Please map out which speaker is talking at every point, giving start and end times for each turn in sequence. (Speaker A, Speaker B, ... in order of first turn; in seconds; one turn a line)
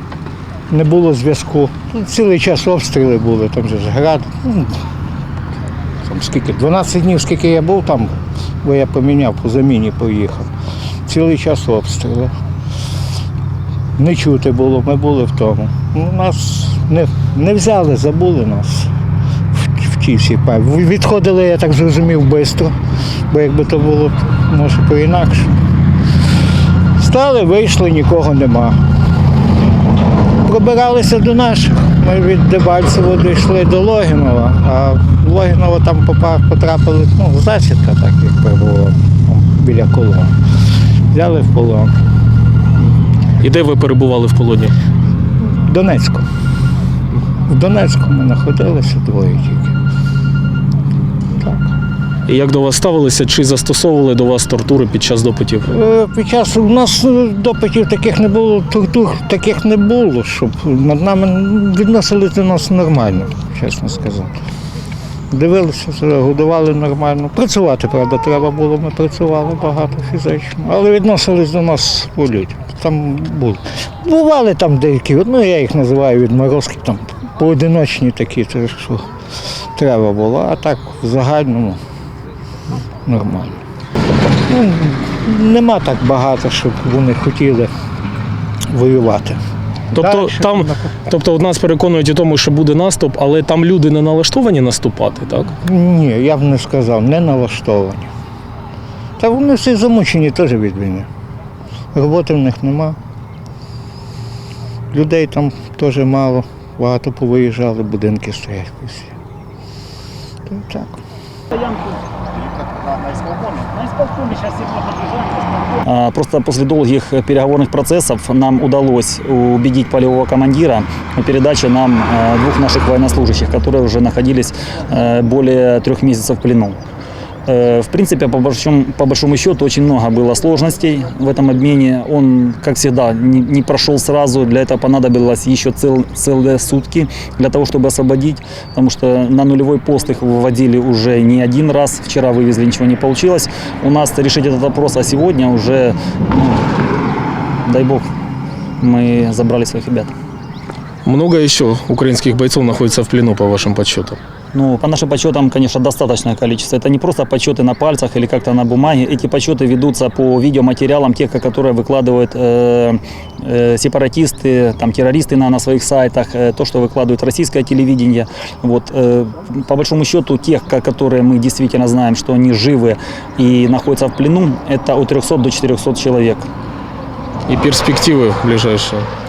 Speaker A: 0.7-4.8
Speaker A: 6.0-10.5
Speaker A: 11.1-12.3
Speaker A: 14.0-18.9
Speaker A: 19.5-22.7
Speaker A: 23.3-25.6
Speaker A: 26.9-28.8
Speaker A: 30.4-40.3
Speaker A: 41.1-41.9
Speaker B: 43.4-44.7
Speaker A: 45.4-46.2
Speaker A: 47.5-49.7
Speaker A: 51.4-51.7
Speaker B: 52.3-55.7
Speaker A: 55.7-64.4
Speaker A: 65.3-79.1
Speaker A: 79.7-81.8
Speaker A: 83.0-83.6
Speaker A: 84.5-87.7
Speaker A: 88.7-89.4
Speaker B: 89.9-95.5
Speaker A: 90.0-90.9
Speaker A: 95.6-98.1
Speaker A: 99.2-101.1
Speaker A: 101.9-103.0
Speaker A: 104.9-109.2
Speaker A: 110.5-111.0
Speaker C: 111.5-126.8
Speaker C: 127.5-146.7
Speaker C: 147.6-148.1
Speaker C: 148.8-150.1
Speaker B: 151.0-154.2
Speaker C: 154.5-176.4
Speaker B: 177.5-179.1